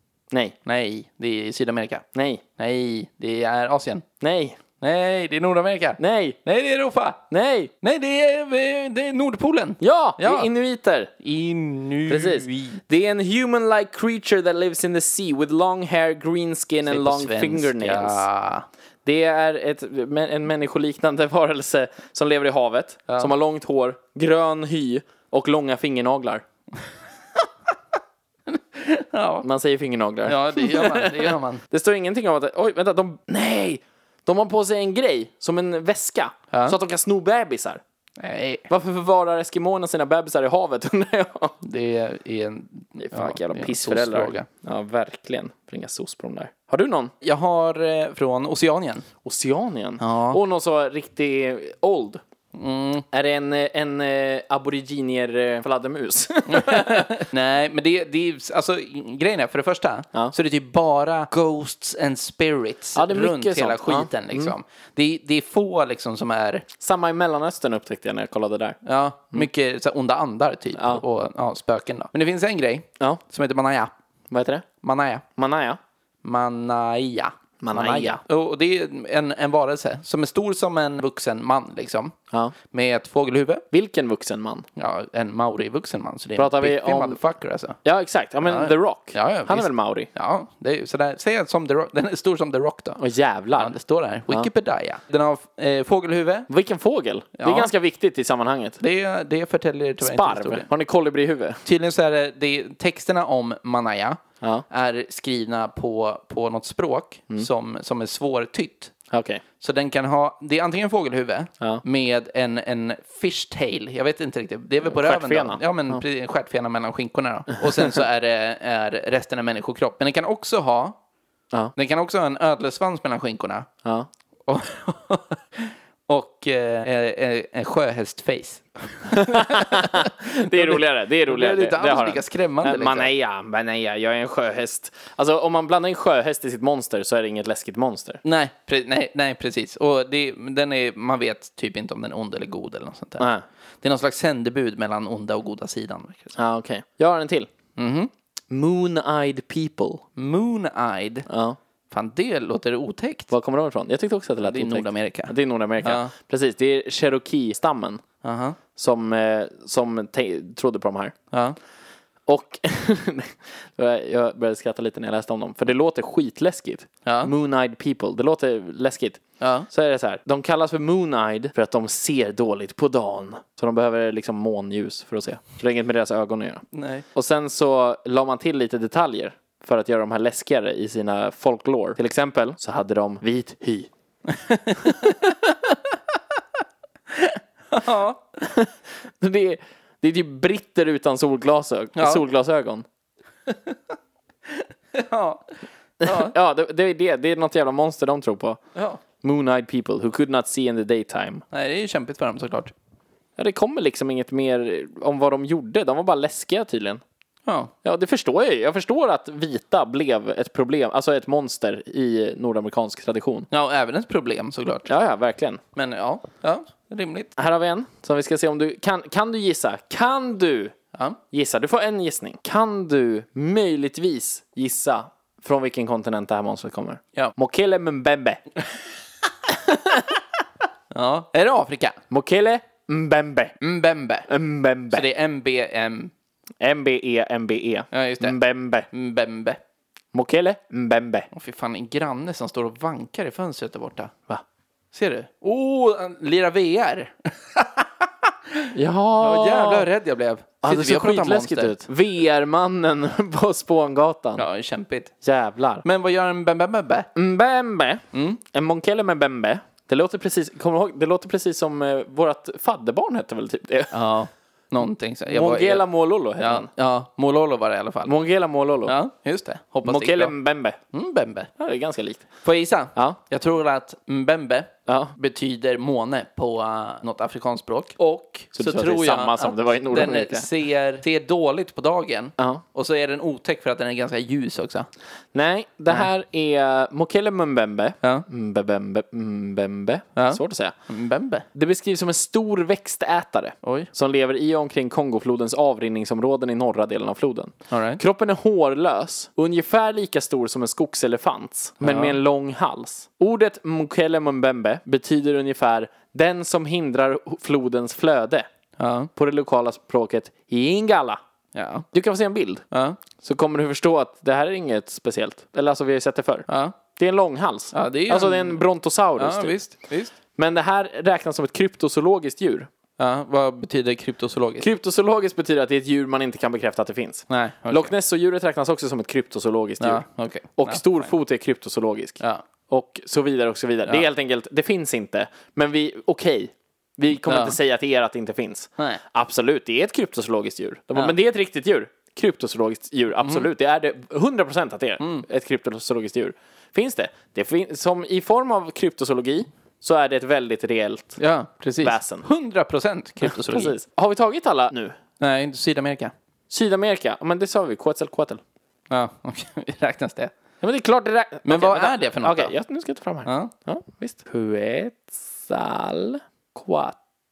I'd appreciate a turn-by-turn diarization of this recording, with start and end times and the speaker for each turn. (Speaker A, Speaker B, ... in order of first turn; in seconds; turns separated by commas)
Speaker A: 0.7-2.0, Speaker B: 2.1-2.4, Speaker A: 2.6-4.0, Speaker B: 4.2-4.6, Speaker A: 4.8-7.2, Speaker B: 6.0-6.4, Speaker B: 7.3-7.7, Speaker A: 7.8-10.5, Speaker B: 9.8-11.1, Speaker A: 11.2-12.8, Speaker B: 12.1-18.2, Speaker A: 16.9-18.6, Speaker B: 19.0-26.4, Speaker A: 28.5-29.4, Speaker B: 29.4-37.8, Speaker A: 30.2-31.6, Speaker A: 36.5-36.8, Speaker A: 38.2-38.7, Speaker B: 38.7-41.6, Speaker A: 41.6-44.5, Speaker B: 43.0-47.1, Speaker A: 47.2-49.0, Speaker B: 49.2-52.2, Speaker A: 50.0-50.4, Speaker A: 52.5-53.0, Speaker B: 53.1-57.2, Speaker A: 56.5-66.7, Speaker B: 62.9-64.5, Speaker B: 66.8-68.8, Speaker A: 68.8-73.9, Speaker B: 70.8-71.0, Speaker B: 74.3-74.6, Speaker A: 74.8-75.2, Speaker B: 75.3-75.8, Speaker A: 76.2-82.1, Speaker B: 77.6-78.2, Speaker A: 82.6-83.6, Speaker B: 83.7-84.7, Speaker A: 84.8-87.8, Speaker B: 86.4-87.2, Speaker B: 87.8-90.1, Speaker A: 88.5-93.0, Speaker B: 93.0-93.7, Speaker A: 93.6-96.5, Speaker B: 96.5-98.8, Speaker A: 97.4-97.7, Speaker A: 98.8-100.7, Speaker B: 100.0-101.6, Speaker A: 101.6-108.9, Speaker B: 109.1-109.4, Speaker A: 109.6-121.0, Speaker B: 114.8-116.0, Speaker A: 121.8-123.7, Speaker A: 124.5-133.1, Speaker B: 129.1-138.2, Speaker A: 138.2-143.2, Speaker B: 143.2-143.4, Speaker A: 143.8-146.3, Speaker B: 146.3-147.5, Speaker A: 147.8-148.1, Speaker B: 148.5-150.0, Speaker A: 150.2-151.3, Speaker B: 151.3-151.6, Speaker A: 151.9-153.3, Speaker B: 153.3-158.0, Speaker A: 154.4-156.1, Speaker A: 158.2-158.6, Speaker B: 158.7-161.2, Speaker A: 161.3-161.6, Speaker B: 162.3-183.9, Speaker A: 167.0-167.3, Speaker A: 169.4-169.7, Speaker A: 176.7-177.0, Speaker A: 184.3-185.3, Speaker A: 187.1-188.2, Speaker B: 188.4-192.8, Speaker A: 191.9-192.2, Speaker A: 193.4-193.9, Speaker A: 194.5-196.3, Speaker B: 196.0-198.6, Speaker A: 198.7-199.0, Speaker B: 199.2-201.4, Speaker A: 201.5-202.7, Speaker B: 203.4-207.0, Speaker A: 207.4-207.7, Speaker B: 207.8-213.5, Speaker A: 213.5-214.9, Speaker B: 214.9-215.6, Speaker A: 215.7-217.3, Speaker B: 217.4-220.7, Speaker B: 221.3-228.4, Speaker B: 229.7-230.1, Speaker A: 230.9-232.0, Speaker B: 232.1-233.6, Speaker A: 233.6-234.3, Speaker B: 234.3-235.1, Speaker A: 234.9-236.1, Speaker B: 236.6-238.9, Speaker A: 237.9-238.4, Speaker A: 238.9-239.6, Speaker B: 240.1-241.3, Speaker A: 241.3-244.1, Speaker A: 244.9-251.8, Speaker B: 248.7-249.9, Speaker B: 250.6-254.4, Speaker A: 254.3-255.1, Speaker B: 255.2-255.8, Speaker A: 255.8-257.1, Speaker B: 257.1-263.9, Speaker A: 258.1-258.4, Speaker A: 263.9-268.1, Speaker B: 265.3-266.7, Speaker B: 268.0-268.9, Speaker A: 268.8-270.4, Speaker B: 269.8-270.8, Speaker A: 270.9-271.5, Speaker B: 271.6-272.3, Speaker A: 272.4-284.9, Speaker B: 274.9-275.1, Speaker B: 278.5-280.5, Speaker B: 282.4-282.6, Speaker B: 285.3-290.7, Speaker A: 290.1-291.4, Speaker B: 291.5-308.5, Speaker A: 293.6-293.9, Speaker A: 297.7-298.0, Speaker A: 301.8-302.2, Speaker A: 308.8-309.1, Speaker B: 309.1-311.2, Speaker A: 311.5-311.9, Speaker B: 311.9-312.6, Speaker A: 312.7-313.0, Speaker B: 313.2-319.6, Speaker A: 316.5-316.8, Speaker A: 317.7-318.6, Speaker A: 319.2-320.1, Speaker B: 320.4-322.7, Speaker A: 323.0-324.7, Speaker B: 324.6-351.2, Speaker A: 327.3-327.9, Speaker A: 329.8-331.1, Speaker A: 337.3-337.6, Speaker A: 343.2-343.4, Speaker A: 345.0-345.2, Speaker A: 351.2-353.7, Speaker B: 351.8-352.2, Speaker B: 353.2-354.9, Speaker A: 355.2-356.1, Speaker B: 356.5-358.4, Speaker A: 358.9-360.3, Speaker B: 360.6-367.0, Speaker A: 361.4-362.5, Speaker A: 363.2-363.5